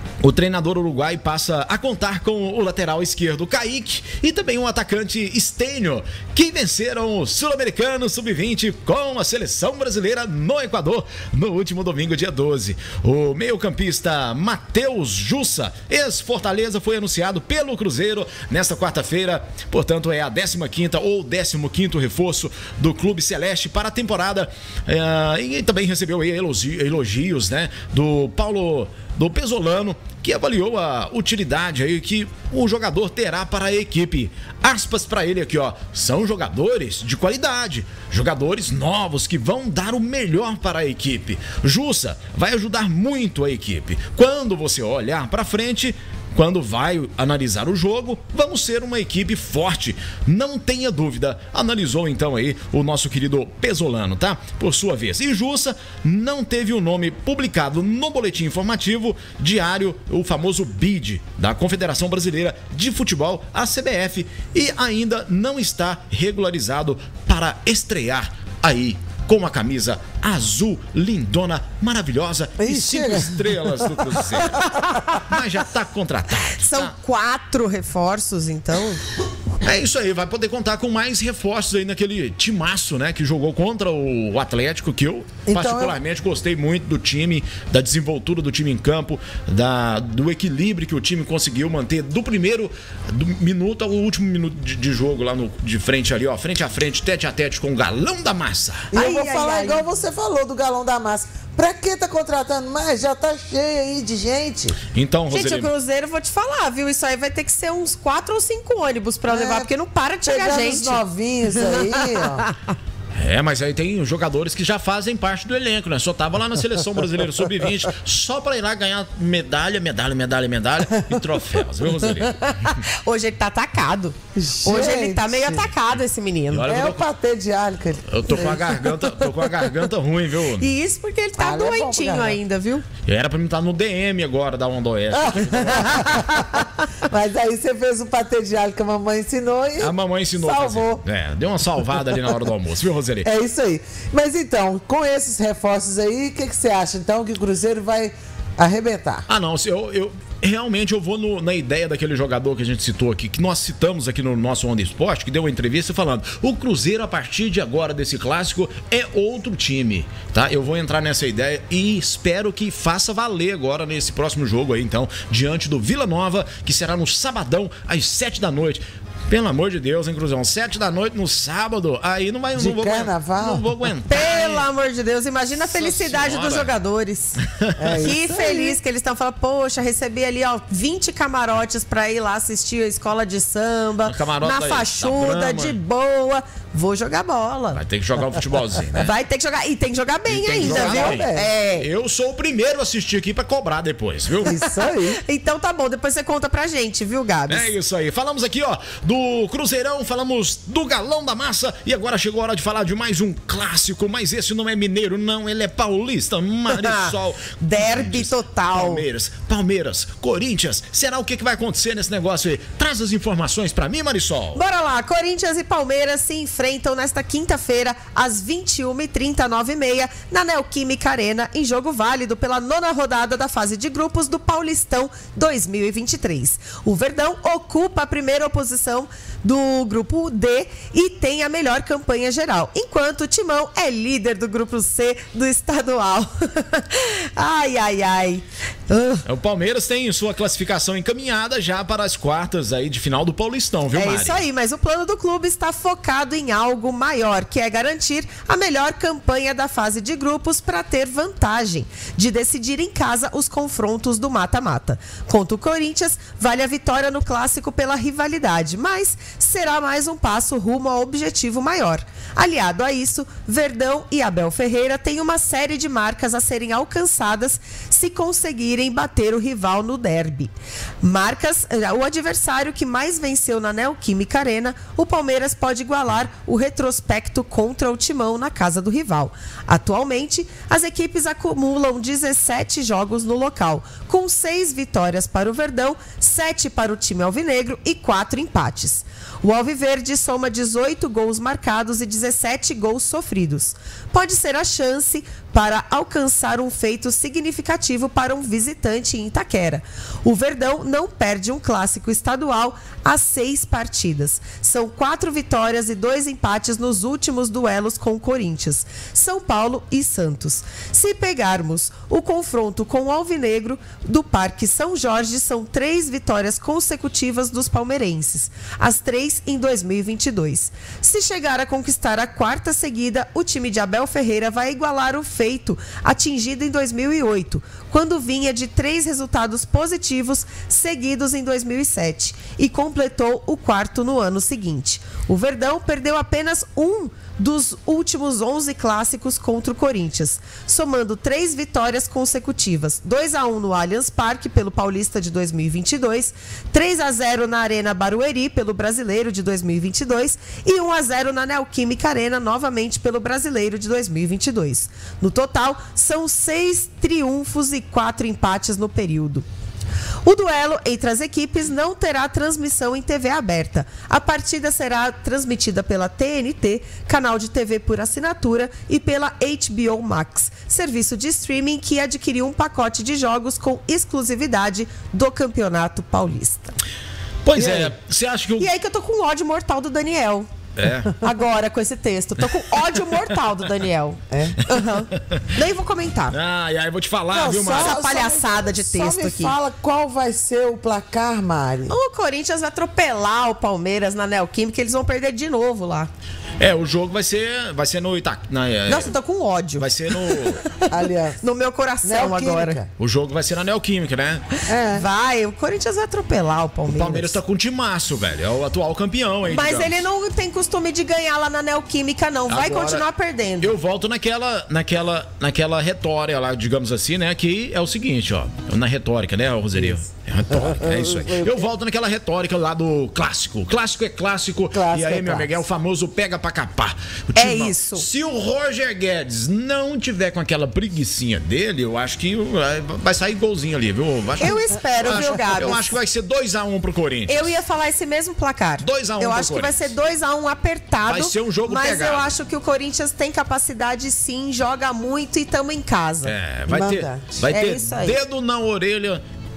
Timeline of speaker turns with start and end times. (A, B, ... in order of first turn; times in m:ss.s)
0:00.2-1:14.6 A
1:12.6-1:14.6 B
1:14.8-1:15.2 C
1:15.2-1:16.9 A
1:16.6-1:19.0 C
1:19.6-1:38.9 A
1:25.4-1:26.0 B
1:38.9-1:44.8 B
1:38.9-1:39.8 C
1:44.9-1:45.7 A
1:45.3-1:51.0 C
1:49.3-1:49.7 B
1:50.2-1:52.4 B
1:51.6-1:52.5 C
1:53.1-2:02.8 A
2:02.2-2:06.7 C
2:04.3-2:05.7 B
2:06.5-2:07.1 A
2:06.6-2:08.8 B
2:08.1-2:10.7 A
2:10.6-2:12.8 C
2:11.4-2:12.4 B
2:13.0-2:16.2 A
2:15.2-2:16.4 B
2:15.7-2:16.7 C
2:17.0-2:21.0 B
2:19.8-2:23.3 A
2:23.2-2:29.2 B
2:29.3-2:54.7 A
2:52.5-2:53.7 B
2:54.1-2:57.4 C
2:55.6-2:56.7 A
2:57.4-2:58.1 A
2:57.8-2:58.8 B
2:58.0-3:07.8 C
3:04.0-3:05.8 A
3:07.7-3:09.1 A
3:08.9-3:11.9 C
3:10.3-3:14.5 A
3:10.6-3:11.5 B
3:14.4-3:15.2 B
3:14.9-3:17.7 C
3:17.5-3:34.6 A
3:26.7-3:29.0 C
3:34.5-3:59.2 C
3:59.2-4:04.4 A
4:03.9-5:59.4 C
6:00.2-6:16.8 C
6:17.4-6:18.7 A
6:17.5-6:17.9 B
6:18.6-6:20.5 C
6:20.8-6:21.2 A
6:21.2-6:26.4 C
6:24.3-6:24.6 B
6:26.3-6:28.0 A
6:27.3-6:32.0 B
6:27.7-6:29.6 C
6:31.9-6:36.1 C
6:36.6-6:39.2 A
6:38.9-6:40.9 C
6:39.8-6:40.6 A
6:40.9-6:41.4 B
6:41.4-6:42.8 C
6:42.0-6:42.9 B
6:43.0-6:44.4 A
6:44.7-6:45.0 B
6:44.9-6:47.4 C
6:46.9-6:50.0 A
6:49.5-6:53.7 C
6:52.5-6:53.0 A
6:53.6-7:17.6 A
7:00.5-7:01.7 B
7:04.7-7:05.6 B
7:07.4-7:08.0 C
7:14.4-7:15.9 C
7:17.3-7:26.3 C
7:18.8-7:19.9 A
7:21.0-7:22.3 A
7:26.2-7:29.2 A
7:26.7-7:27.3 B
7:27.4-7:28.2 C